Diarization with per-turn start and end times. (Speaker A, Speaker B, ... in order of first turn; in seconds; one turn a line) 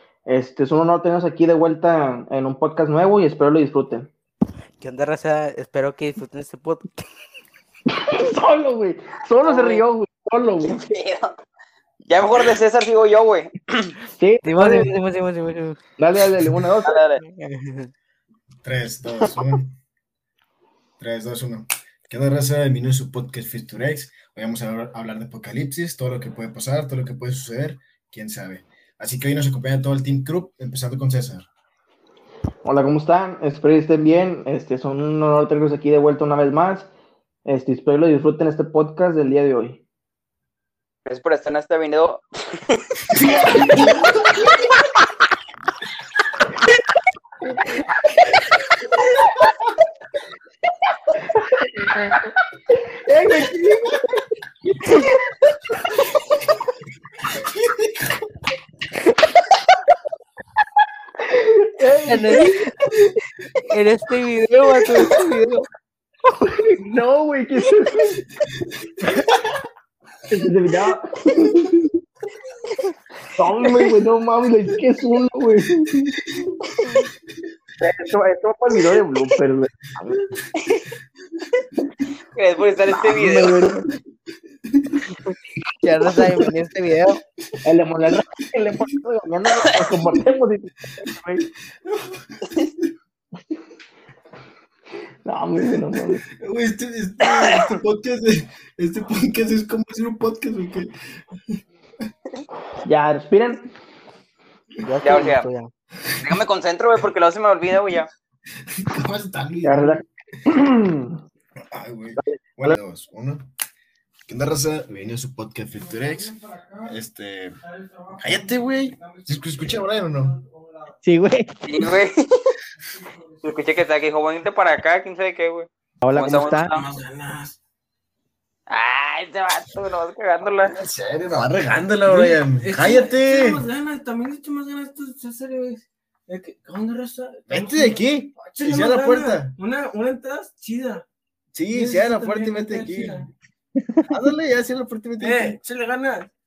Speaker A: 0.3-4.1
Speaker B: 4.8-7.0
Speaker A: 7.9-10.8
Speaker C: 9.4-9.8
Speaker C: 10.6-11.3
Speaker C: 12.1-13.9
Speaker A: 14.1-14.9
Speaker B: 14.4-15.8
Speaker A: 16.0-17.0
Speaker C: 16.8-17.2
Speaker B: 17.2-17.9
Speaker D: 18.6-19.8
Speaker D: 21.0-31.5
Speaker A: 32.6-36.9
Speaker A: 37.5-39.8
Speaker C: 41.0-42.8
Speaker A: 51.3-52.0
Speaker A: 53.0-54.1
Speaker A: 61.2-62.5
Speaker B: 62.0-63.0
Speaker B: 63.6-65.7
Speaker A: 66.4-68.2
Speaker A: 70.3-71.7
Speaker A: 73.3-76.1
Speaker A: 77.8-80.2
Speaker C: 80.6-80.9
Speaker C: 82.3-83.6
Speaker A: 82.9-83.8
Speaker B: 85.8-87.2
Speaker A: 87.6-91.4
Speaker D: 91.9-92.4
Speaker A: 95.2-96.2
Speaker D: 96.3-100.9
Speaker A: 102.8-103.7
Speaker B: 104.8-105.7
Speaker C: 105.0-105.5
Speaker C: 106.2-108.1
Speaker D: 108.8-110.0
Speaker A: 109.6-111.2
Speaker D: 111.7-113.5
Speaker A: 112.3-112.8
Speaker D: 114.3-117.6
Speaker E: 116.5-116.8
Speaker E: 117.7-119.2
Speaker D: 118.1-120.4
Speaker E: 120.5-120.9
Speaker A: 121.0-121.6
Speaker C: 121.7-122.5
Speaker C: 123.4-126.9
Speaker A: 126.0-126.8
Speaker E: 126.6-127.5
Speaker C: 128.7-130.8
Speaker D: 130.4-133.7
Speaker E: 131.7-141.1
Speaker D: 137.5-139.5
Speaker D: 141.5-143.3
Speaker E: 141.7-143.3
Speaker D: 144.1-145.6
Speaker E: 145.2-146.3